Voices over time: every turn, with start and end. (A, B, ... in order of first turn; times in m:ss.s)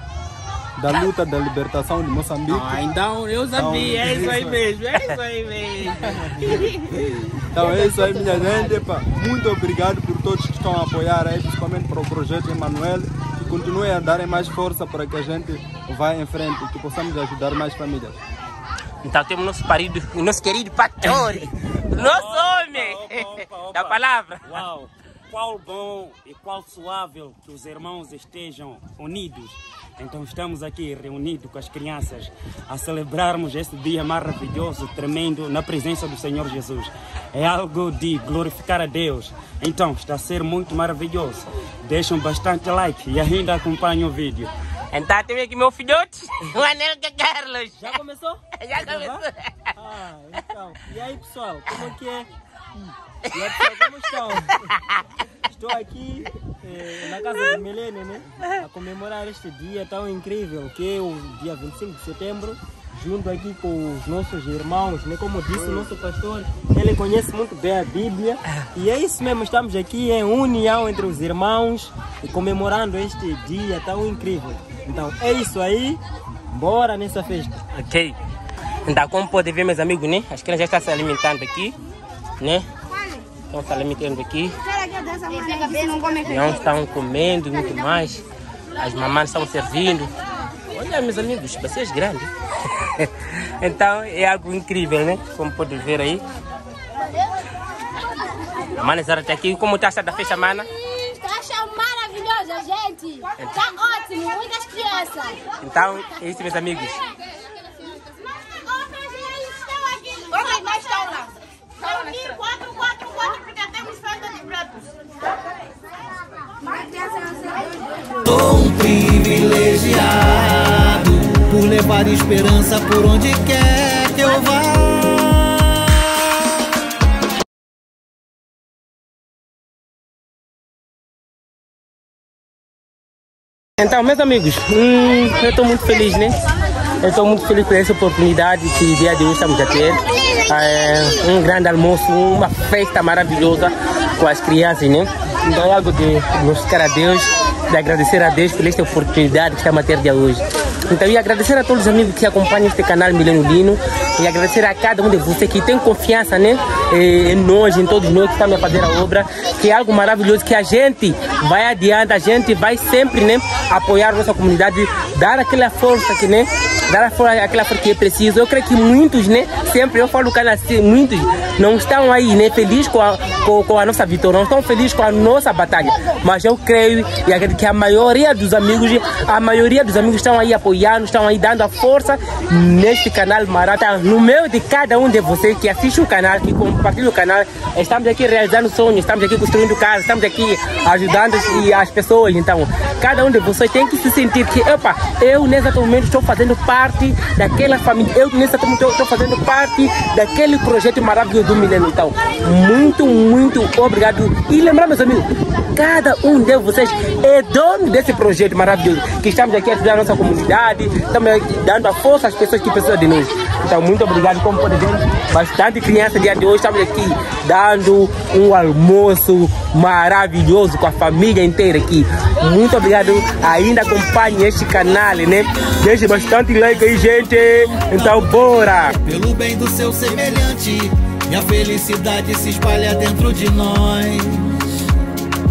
0:00.8-0:03.0 A
0:02.5-0:08.8 B
0:03.5-0:04.6 A
0:07.5-0:18.2 A
0:19.0-0:24.4 C
0:21.9-0:44.5 D
0:44.9-0:47.8 C
0:47.8-0:49.2 E
0:48.6-0:49.6 C
0:49.8-0:54.8 E
0:53.4-0:53.7 C
0:55.5-1:16.0 E
1:16.5-1:17.6 E
1:17.7-1:18.1 C
1:18.8-1:21.8 C
1:22.4-1:22.6 C
1:23.5-1:24.5 C
1:24.7-1:26.6 F
1:26.2-1:28.2 C
1:28.8-1:30.1 C
1:30.7-1:36.2 C
1:38.8-1:40.7 C
1:40.8-1:45.5 F
1:45.6-1:47.0 C
1:48.5-1:54.9 F
1:56.8-1:57.6 F
1:58.2-2:06.3 G
2:13.8-2:16.3 C
2:17.0-3:48.9 C
3:44.9-3:54.7 G